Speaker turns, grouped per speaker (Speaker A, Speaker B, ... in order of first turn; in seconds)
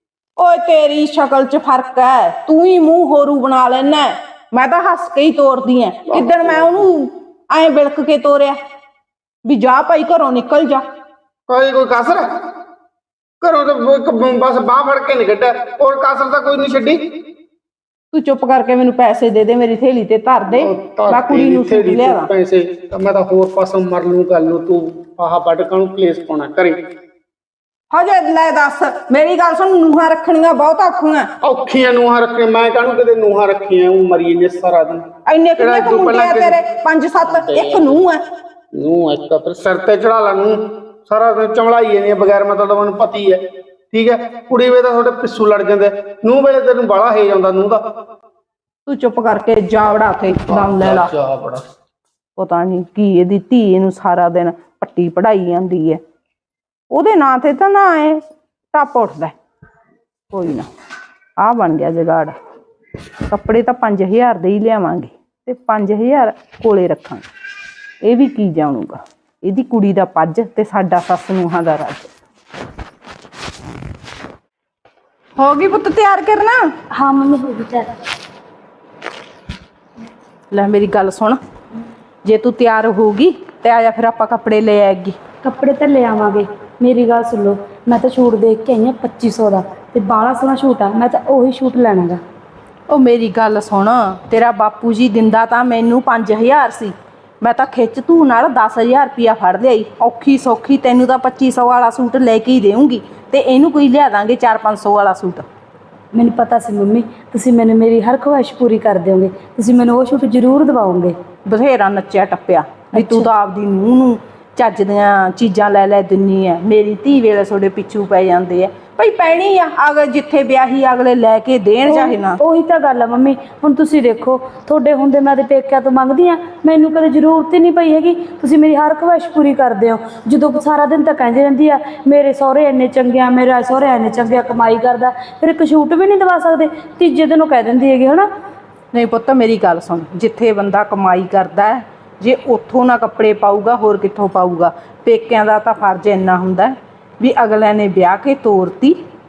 Speaker A: 0.4-8.6, 9.4-10.8, 18.1-22.3, 27.9-31.3, 35.3-38.2, 48.9-51.1, 52.4-56.0, 56.9-58.2, 58.7-59.3, 60.3-60.7, 61.4-62.4, 63.3-67.3, 68.0-72.1, 75.4-76.6, 80.5-81.4, 82.2-85.2, 92.9-105.5, 111.5-122.4, 138.9-149.0
Speaker B: 6.1-6.8, 11.5-12.3, 13.4-17.0, 20.5-26.8, 31.4-35.0, 35.6-36.6, 37.3-38.0, 38.7-47.8, 50.5-51.6
Speaker C: 76.9-77.9, 85.4-92.2, 106.1-111.2, 112.9-113.3, 121.8-138.3